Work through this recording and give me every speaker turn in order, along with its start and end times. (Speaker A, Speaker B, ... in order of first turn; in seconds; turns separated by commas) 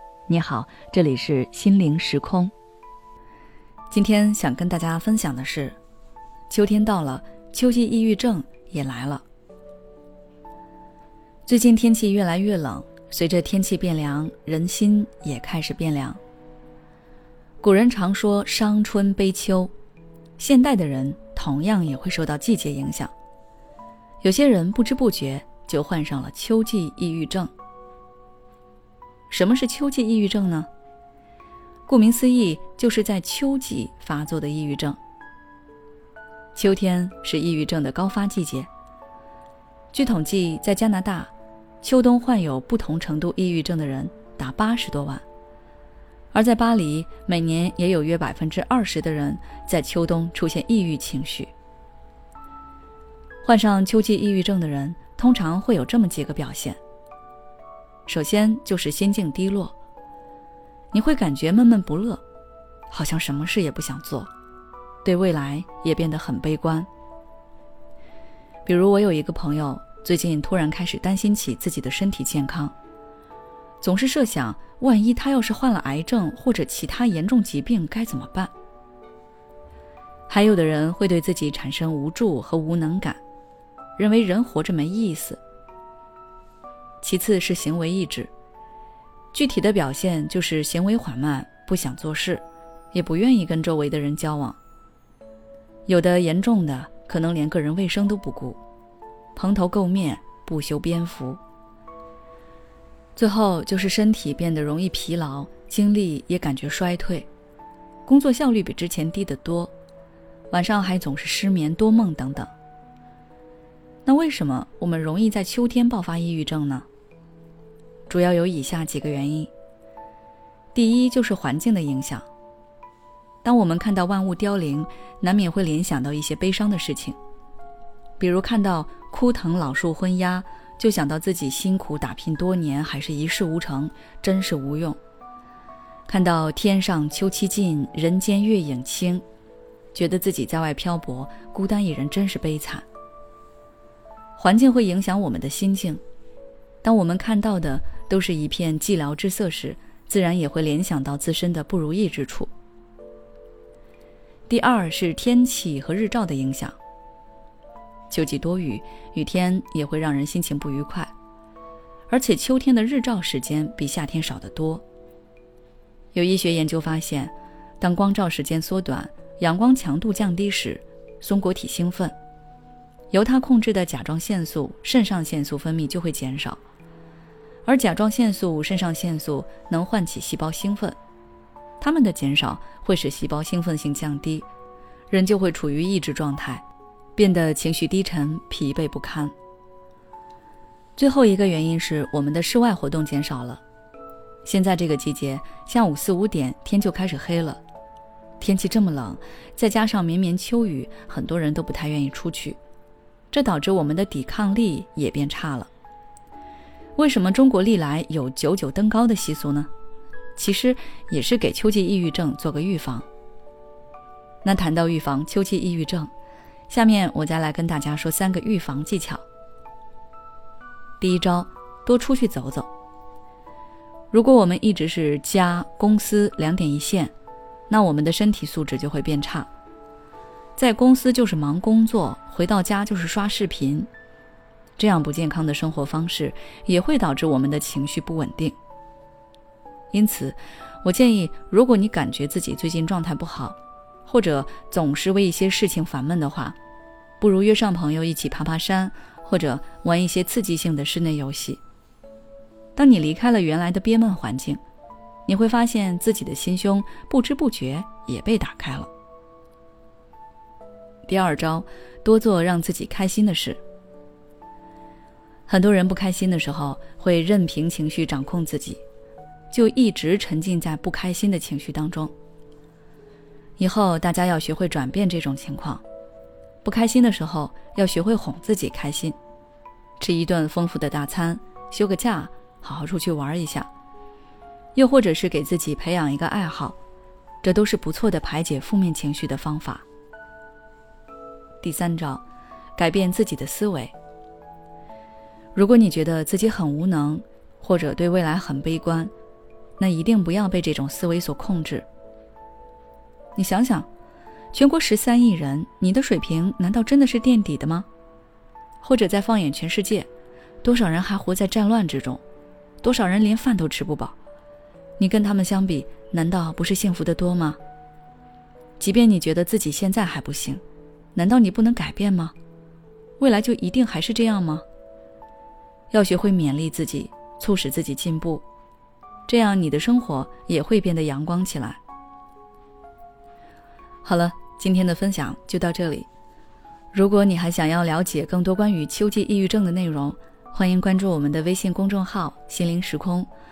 Speaker A: 0.3-2.5, Speaker A: 3.9-5.8, Speaker A: 6.5-9.2, Speaker A: 11.5-16.2, Speaker A: 17.6-19.7, Speaker A: 20.4-23.1, Speaker A: 24.2-27.5, Speaker A: 29.3-30.7, Speaker A: 31.9-35.0, Speaker A: 36.5-38.7, Speaker A: 39.9-45.2, Speaker A: 46.3-51.5, Speaker A: 53.4-56.8, Speaker A: 58.1-59.7, Speaker A: 60.9-62.2, Speaker A: 62.9-64.3, Speaker A: 65.0-66.9, Speaker A: 68.6-72.7, Speaker A: 73.8-78.5, Speaker A: 80.3-83.2, Speaker A: 84.0-85.4, Speaker A: 87.0-88.3, Speaker A: 89.3-94.6, Speaker A: 95.9-98.6, Speaker A: 99.3-101.4, Speaker A: 103.2-107.3, Speaker A: 108.0-109.7, Speaker A: 110.5-112.5, Speaker A: 114.0-116.8, Speaker A: 118.1-119.5, Speaker A: 120.7-122.3, Speaker A: 123.4-127.2, Speaker A: 128.2-135.0, Speaker A: 136.1-139.2, Speaker A: 139.9-142.8, Speaker A: 144.4-146.0, Speaker A: 146.8-152.5, Speaker A: 154.5-156.8, Speaker A: 158.1-161.1, Speaker A: 162.1-164.8, Speaker A: 166.1-172.1, Speaker A: 173.1-176.6, Speaker A: 177.6-180.9, Speaker A: 181.8-184.4, Speaker A: 185.1-186.6, Speaker A: 187.2-189.3, Speaker A: 191.0-193.6, Speaker A: 194.4-197.6, Speaker A: 198.4-202.6, Speaker A: 203.3-205.7, Speaker A: 206.9-209.7, Speaker A: 210.3-213.1, Speaker A: 214.4-216.1, Speaker A: 216.7-219.2, Speaker A: 221.0-222.7, Speaker A: 224.1-227.1, Speaker A: 227.7-229.5, Speaker A: 230.6-233.9, Speaker A: 234.8-238.6, Speaker A: 239.9-246.6, Speaker A: 247.2-251.6, Speaker A: 252.8-254.6, Speaker A: 255.2-258.9, Speaker A: 261.1-263.6, Speaker A: 265.5-268.8, Speaker A: 269.5-272.1, Speaker A: 273.6-275.8, Speaker A: 276.6-279.1, Speaker A: 280.0-283.7, Speaker A: 284.7-286.8, Speaker A: 287.4-289.8, Speaker A: 291.6-292.2, Speaker A: 292.8-293.9, Speaker A: 295.5-299.1, Speaker A: 299.8-301.9, Speaker A: 303.4-303.9, Speaker A: 304.5-307.9, Speaker A: 308.8-310.1, Speaker A: 310.6-312.2, Speaker A: 312.8-314.1, Speaker A: 315.0-317.6, Speaker A: 318.8-320.6, Speaker A: 321.1-322.3, Speaker A: 323.2-324.6, Speaker A: 325.9-328.4, Speaker A: 329.3-331.8, Speaker A: 334.0-336.1, Speaker A: 336.9-343.3